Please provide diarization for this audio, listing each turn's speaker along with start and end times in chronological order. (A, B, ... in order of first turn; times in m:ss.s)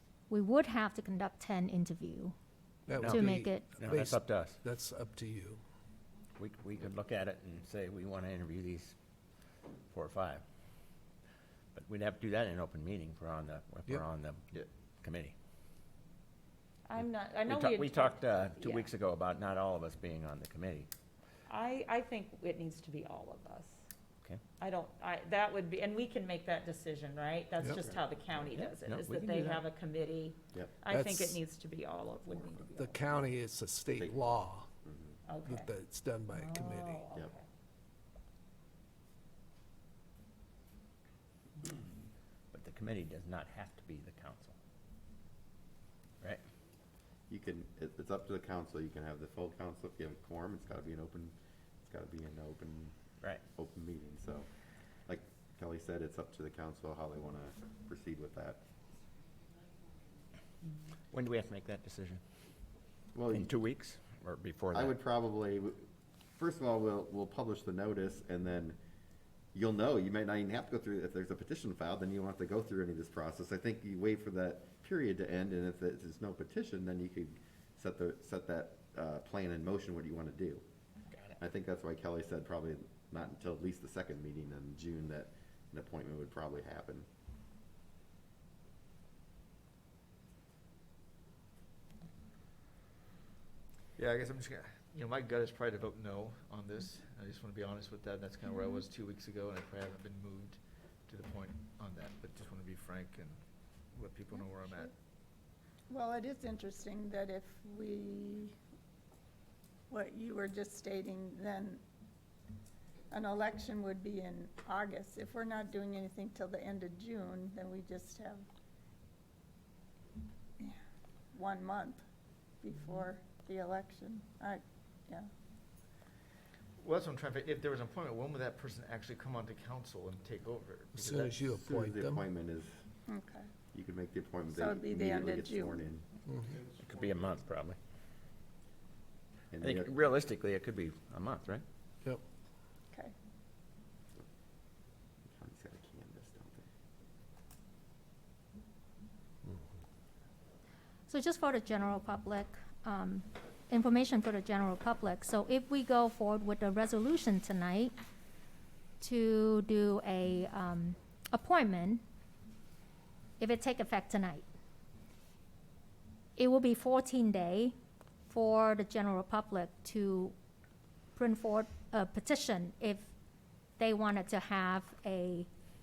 0:00.3-0:02.3 A
0:02.9-0:05.6 B
0:03.0-0:04.6 C
0:03.0-0:03.8 A
0:06.4-0:09.0 C
0:09.9-0:10.4 C
0:11.7-0:14.5 C
0:15.0-0:15.4 C
0:16.9-0:18.9 D
0:17.0-0:20.9 C
0:21.5-0:23.8 D
0:24.6-0:33.3 D
0:27.6-0:27.9 B
0:28.4-0:29.7 C
0:30.8-0:31.4 B
0:32.6-0:34.7 B
0:34.0-0:35.2 E
0:35.3-0:35.7 D
0:35.4-0:37.1 B
0:36.3-0:37.4 D
0:42.5-0:44.6 C
0:47.3-0:53.0 E
0:53.6-0:54.5 E
0:55.1-0:58.6 E
1:01.1-1:02.2 C
1:03.1-1:03.5 E
1:03.3-1:05.0 C
1:04.7-1:08.8 E
1:09.5-1:20.6 E
1:21.1-1:21.4 C
1:21.4-1:27.1 E
1:34.0-1:43.4 F
1:43.9-1:44.9 F
1:45.9-1:48.6 G
1:49.9-1:51.8 G
1:53.1-1:58.4 G
2:01.3-2:02.0 G
2:02.6-2:05.3 G
2:06.8-2:11.1 F
2:10.9-2:12.2 B
2:11.0-2:12.8 E
2:13.1-2:13.5 G
2:13.7-2:16.1 E
2:14.5-2:15.8 G
2:16.3-2:16.6 B
2:16.7-2:17.8 C
2:19.5-2:19.9 E
2:19.6-2:21.6 C
2:25.3-2:26.7 E
2:31.1-2:37.9 A
2:39.0-2:42.0 A
2:43.4-2:44.5 A
2:46.4-2:47.8 A
2:48.3-2:50.3 A
2:51.2-2:53.1 A
2:53.8-2:55.5 A